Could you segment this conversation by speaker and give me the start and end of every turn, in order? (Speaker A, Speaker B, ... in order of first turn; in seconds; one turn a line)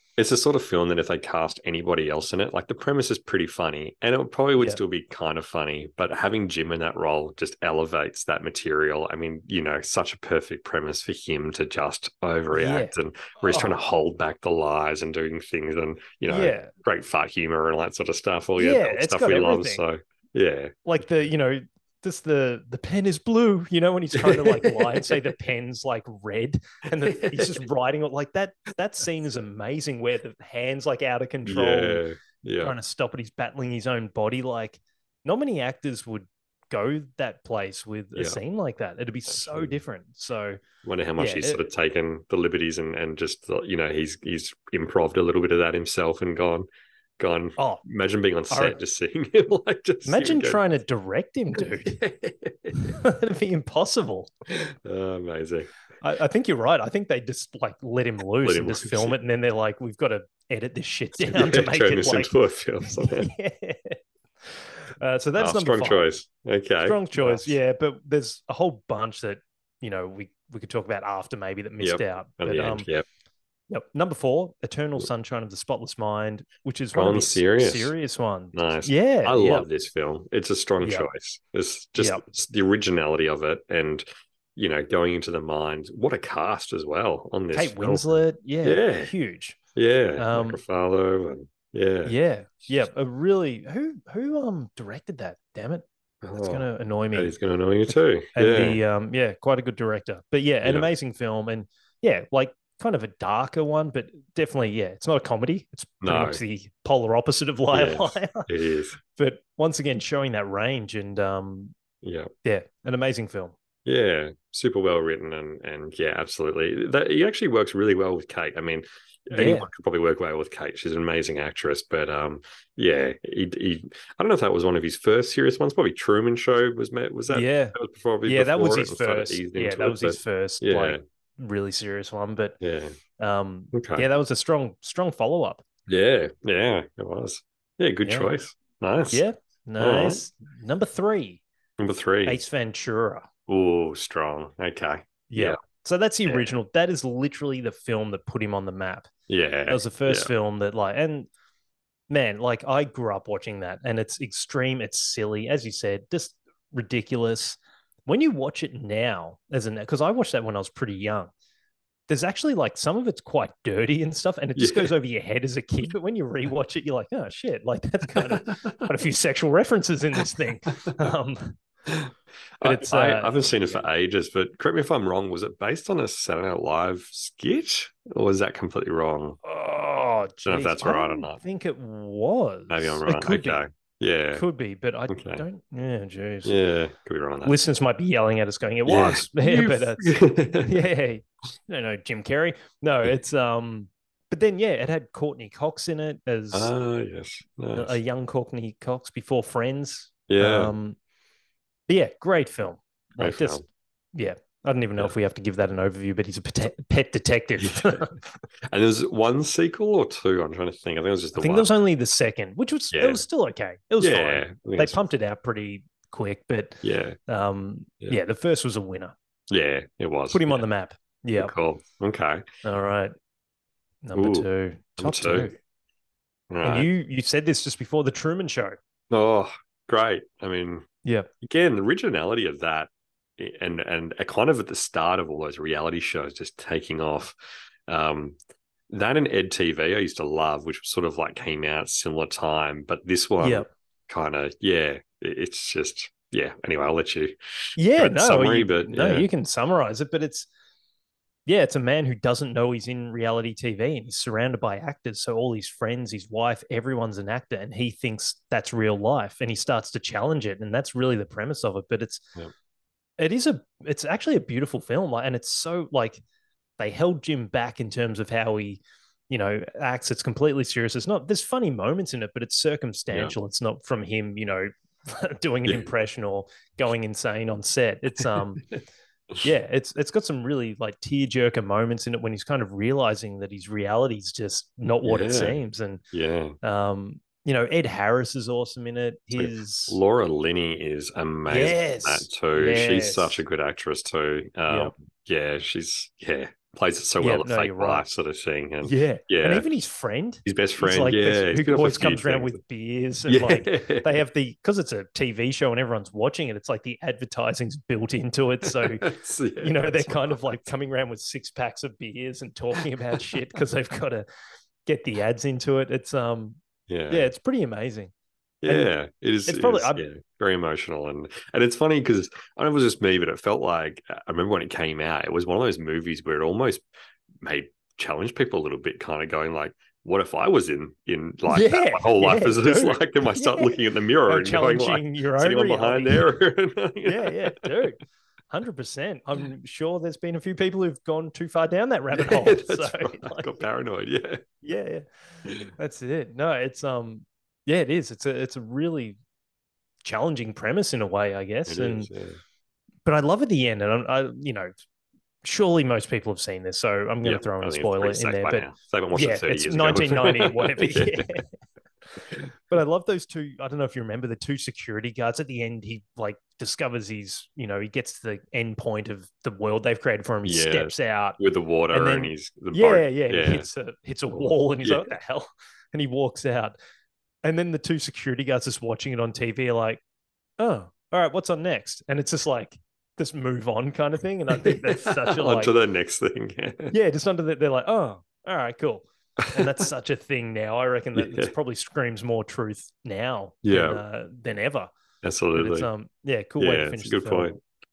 Speaker A: 0.2-20.7
Speaker B: 12.5-13.8
Speaker B: 16.3-16.7
Speaker B: 18.6-19.8
Speaker B: 20.8-32.0
Speaker A: 24.1-25.2
Speaker A: 27.0-27.6
Speaker A: 31.4-32.8
Speaker B: 32.6-40.6
Speaker A: 39.3-39.7
Speaker A: 40.8-46.6
Speaker B: 41.2-41.6
Speaker A: 47.2-50.6
Speaker B: 47.5-47.8
Speaker B: 48.5-48.8
Speaker B: 50.0-51.9
Speaker A: 51.6-53.0
Speaker B: 52.8-54.3
Speaker A: 54.5-55.7
Speaker B: 56.0-62.3
Speaker A: 58.4-59.1
Speaker A: 61.2-63.3
Speaker B: 62.9-64.0
Speaker B: 64.5-66.0
Speaker A: 65.3-67.6
Speaker B: 66.8-72.9
Speaker A: 71.8-73.0
Speaker B: 73.7-79.7
Speaker A: 76.9-77.9
Speaker A: 78.5-89.1
Speaker B: 80.8-81.1
Speaker B: 82.0-82.2
Speaker B: 87.5-89.6
Speaker A: 89.8-92.2
Speaker B: 90.2-90.6
Speaker B: 92.0-95.8
Speaker A: 96.2-98.8
Speaker B: 96.3-97.3
Speaker B: 97.9-108.5
Speaker A: 100.6-100.9
Speaker A: 106.0-106.4
Speaker A: 107.7-109.0
Speaker B: 109.1-111.7
Speaker A: 112.0-112.3
Speaker B: 112.4-113.5
Speaker A: 113.8-131.0
Speaker B: 119.3-119.7
Speaker B: 127.3-132.6
Speaker A: 132.6-132.9
Speaker B: 133.2-135.6
Speaker A: 133.7-134.1
Speaker A: 135.9-139.2
Speaker B: 138.0-138.3
Speaker B: 139.1-141.4
Speaker A: 139.8-140.2
Speaker A: 141.8-142.4
Speaker B: 142.2-143.3
Speaker A: 143.5-145.6
Speaker B: 145.3-149.1
Speaker A: 149.3-150.3
Speaker B: 149.7-151.3
Speaker B: 152.1-161.3
Speaker B: 162.1-171.5
Speaker A: 164.6-164.9
Speaker A: 168.1-168.8
Speaker A: 172.6-179.4
Speaker B: 172.6-173.8
Speaker B: 179.4-183.6
Speaker A: 180.4-181.4
Speaker A: 182.7-184.4
Speaker B: 184.3-186.6
Speaker A: 185.1-185.4
Speaker A: 186.4-187.5
Speaker B: 187.4-196.7
Speaker A: 188.8-190.8
Speaker A: 196.5-198.0
Speaker B: 197.7-201.0
Speaker A: 200.3-200.7
Speaker B: 201.9-208.2
Speaker A: 203.2-203.6
Speaker A: 207.6-208.1
Speaker A: 208.7-211.7
Speaker B: 211.3-219.1
Speaker A: 212.9-213.2
Speaker A: 214.0-215.0
Speaker A: 216.8-217.2
Speaker A: 219.5-220.7
Speaker B: 220.3-221.5
Speaker A: 221.3-222.4
Speaker B: 222.6-223.1
Speaker B: 224.0-225.6
Speaker A: 224.1-225.5
Speaker A: 226.5-226.9
Speaker B: 226.6-228.8
Speaker A: 229.1-230.8
Speaker B: 231.0-231.3
Speaker A: 231.4-237.3
Speaker A: 237.9-238.3
Speaker A: 238.9-249.3
Speaker B: 243.4-243.7
Speaker B: 247.8-250.5
Speaker B: 251.4-262.2
Speaker B: 263.2-266.2
Speaker B: 266.8-278.6
Speaker B: 279.4-286.0
Speaker A: 285.0-285.6
Speaker A: 286.1-286.6
Speaker B: 286.6-290.0
Speaker A: 289.3-299.7
Speaker B: 291.5-293.4
Speaker B: 297.2-298.1
Speaker B: 298.8-309.1
Speaker A: 300.4-302.6
Speaker A: 303.3-304.2
Speaker A: 308.6-310.6
Speaker B: 309.6-314.2
Speaker A: 312.7-313.3
Speaker B: 314.8-316.6
Speaker A: 316.9-317.3
Speaker B: 317.1-318.1
Speaker A: 318.6-326.8
Speaker B: 318.6-318.9
Speaker B: 319.4-320.0
Speaker A: 327.4-337.9
Speaker B: 331.5-336.3
Speaker B: 337.0-343.6
Speaker A: 342.1-344.4
Speaker B: 344.6-345.1
Speaker B: 345.7-349.2
Speaker B: 350.0-352.1
Speaker A: 351.7-352.4
Speaker B: 353.1-354.7
Speaker B: 355.4-361.4
Speaker A: 357.2-361.4
Speaker B: 362.7-371.4
Speaker A: 370.4-373.7
Speaker B: 371.9-376.7
Speaker A: 374.3-375.1
Speaker B: 377.4-380.0
Speaker B: 380.6-385.7
Speaker A: 384.5-386.9
Speaker B: 386.9-394.9
Speaker A: 391.1-391.5
Speaker A: 393.6-394.0
Speaker A: 395.2-395.9
Speaker B: 395.5-397.5
Speaker A: 396.6-397.6